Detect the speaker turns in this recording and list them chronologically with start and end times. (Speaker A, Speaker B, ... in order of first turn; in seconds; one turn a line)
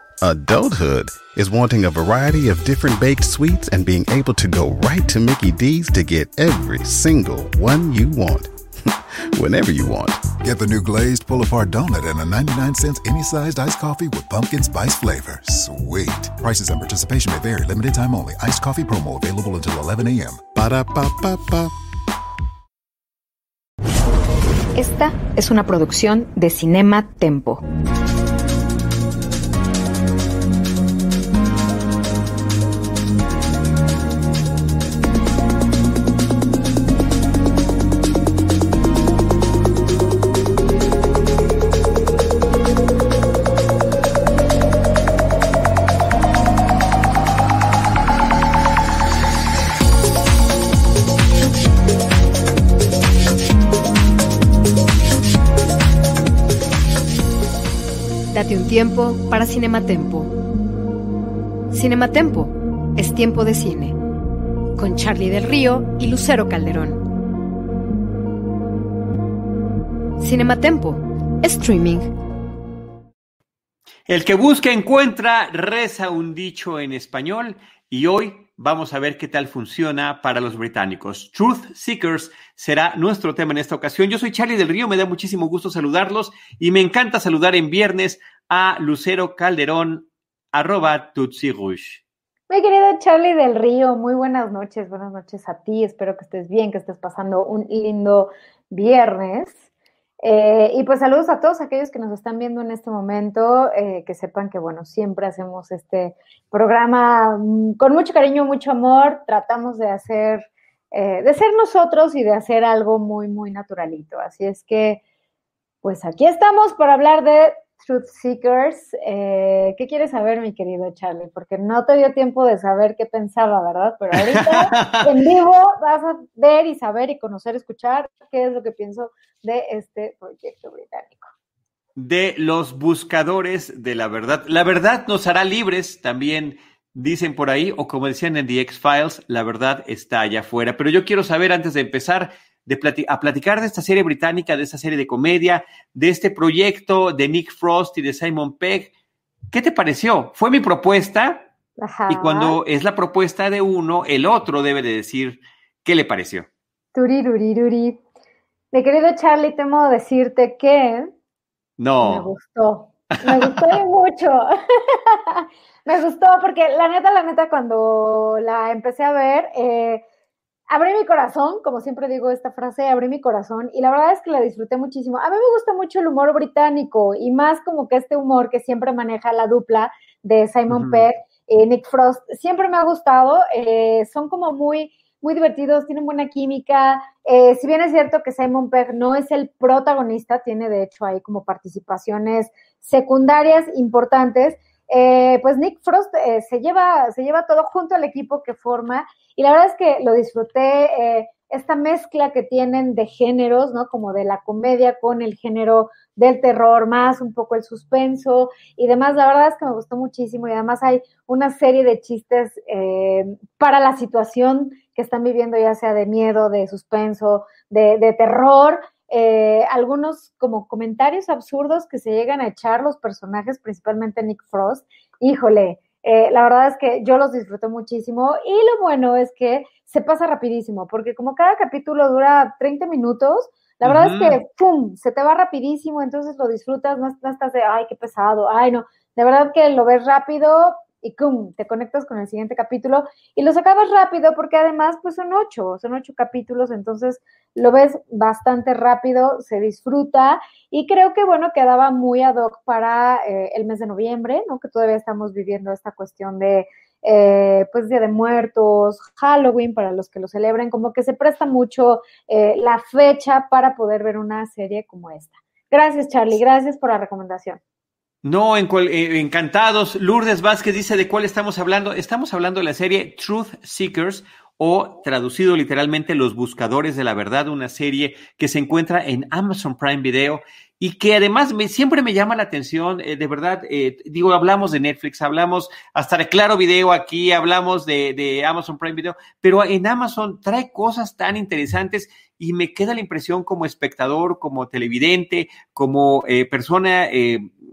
Speaker A: 0.2-8.5
Speaker A: 9.3-10.4
Speaker B: 10.4-21.7
Speaker C: 24.8-27.6
Speaker C: 58.3-60.3
Speaker C: 61.7-64.0
Speaker C: 64.8-67.0
Speaker C: 70.2-72.1
Speaker D: 74.1-92.0
Speaker E: 92.5-99.6
Speaker E: 100.2-115.0
Speaker E: 115.8-131.3
Speaker D: 124.2-125.1
Speaker D: 132.0-148.9
Speaker D: 149.5-151.5
Speaker E: 151.8-152.6
Speaker D: 152.1-156.5
Speaker E: 156.9-158.0
Speaker E: 158.7-161.1
Speaker D: 161.8-162.3
Speaker E: 162.0-170.0
Speaker D: 163.2-163.8
Speaker E: 170.7-267.6
Speaker D: 180.7-181.1
Speaker D: 233.8-234.4
Speaker D: 268.2-297.5